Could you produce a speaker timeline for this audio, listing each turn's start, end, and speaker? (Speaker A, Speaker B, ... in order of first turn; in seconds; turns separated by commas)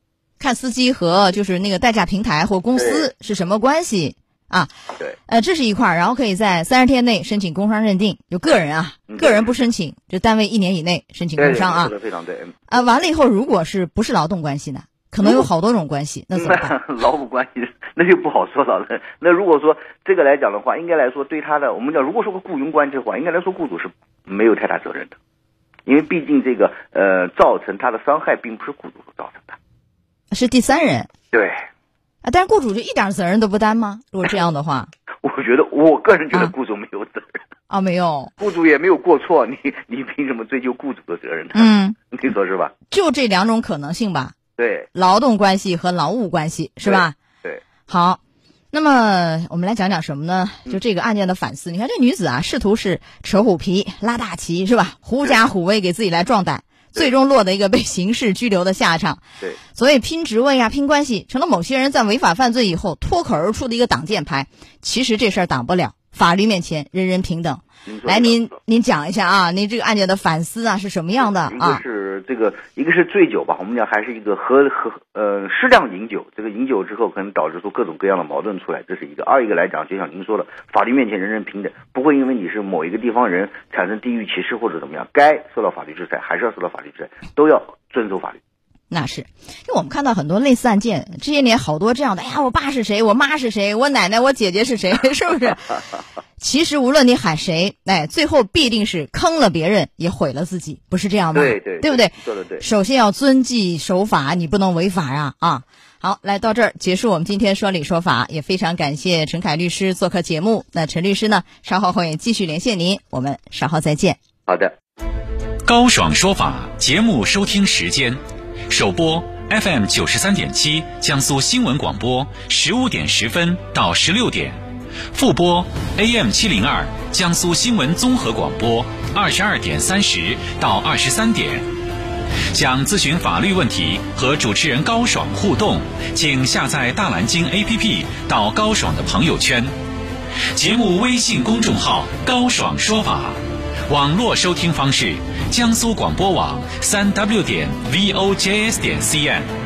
Speaker A: 0.4-4.7, Speaker B: 2.8-3.1, Speaker A: 5.3-11.9, Speaker B: 9.1-9.4, Speaker B: 11.4-12.6, Speaker A: 12.7-16.7, Speaker B: 16.3-25.1, Speaker B: 25.9-29.6, Speaker A: 30.3-31.1, Speaker B: 31.3-31.6, Speaker A: 32.2-34.9, Speaker B: 35.2-37.3, Speaker A: 37.7-38.3, Speaker B: 38.4-42.7, Speaker A: 41.5-41.9, Speaker A: 42.9-44.3, Speaker B: 44.6-44.9, Speaker A: 44.9-47.1, Speaker B: 46.8-47.6, Speaker A: 47.9-48.2, Speaker A: 48.7-59.2, Speaker A: 59.7-71.8, Speaker B: 67.8-68.5, Speaker B: 71.2-88.4, Speaker A: 88.9-95.8, Speaker A: 96.4-114.2, Speaker B: 101.3-102.6, Speaker B: 114.5-114.7, Speaker C: 115.6-124.6, Speaker C: 125.1-131.7, Speaker C: 132.5-139.7, Speaker C: 140.5-149.5